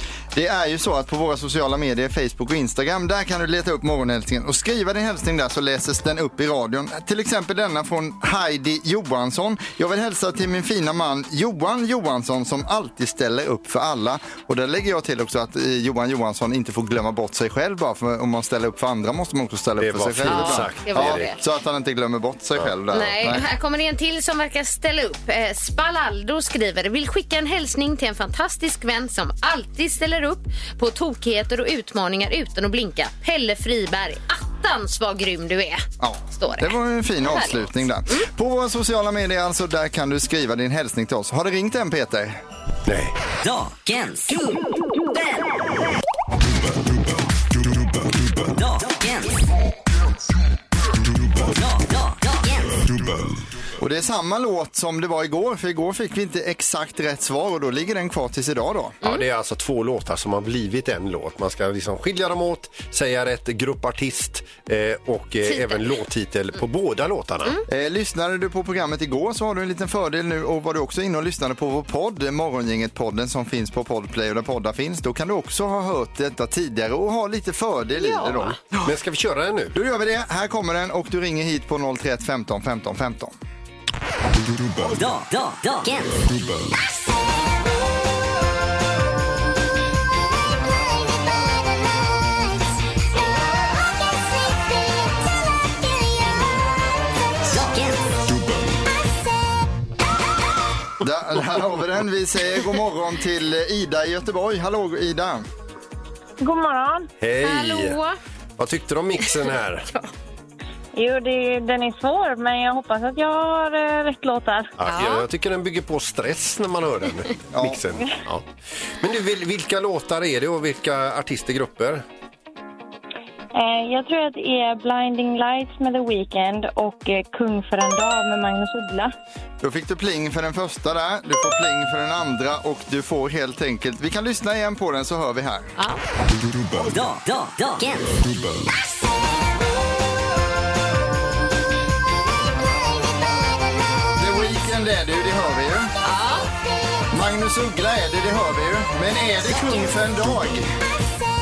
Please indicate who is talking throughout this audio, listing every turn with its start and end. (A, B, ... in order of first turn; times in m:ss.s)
0:00.3-0:23.5 A
0:19.8-0:21.3 B
0:20.2-0:21.4 C
0:22.9-0:35.8 C
0:36.0-0:42.4 A
0:36.4-0:38.3 C
0:42.8-0:43.2 B
0:43.4-0:45.5 D
0:48.5-0:49.4 D
0:51.4-0:53.1 D
0:53.8-0:59.0 A
0:59.0-1:07.6 B
1:05.4-1:05.9 C
1:07.7-1:19.0 A
1:18.0-1:18.6 C
1:18.8-1:19.8 B
1:19.7-1:23.4 A
1:24.8-1:26.6 D
1:37.4-1:38.2 D
1:41.0-1:45.4 A
1:46.4-1:47.1 E
1:47.2-1:48.0 B
1:47.4-1:48.2 C
1:48.6-1:49.9 B
1:51.0-1:54.7 E
1:54.8-2:02.0 B
1:54.9-1:55.3 C
1:57.5-1:57.8 A
2:03.6-2:09.1 E
2:09.6-2:15.7 A
2:15.8-2:16.0 C
2:16.7-2:18.5 D
2:24.2-2:25.9 A
2:26.0-2:26.5 C
2:27.1-2:30.7 A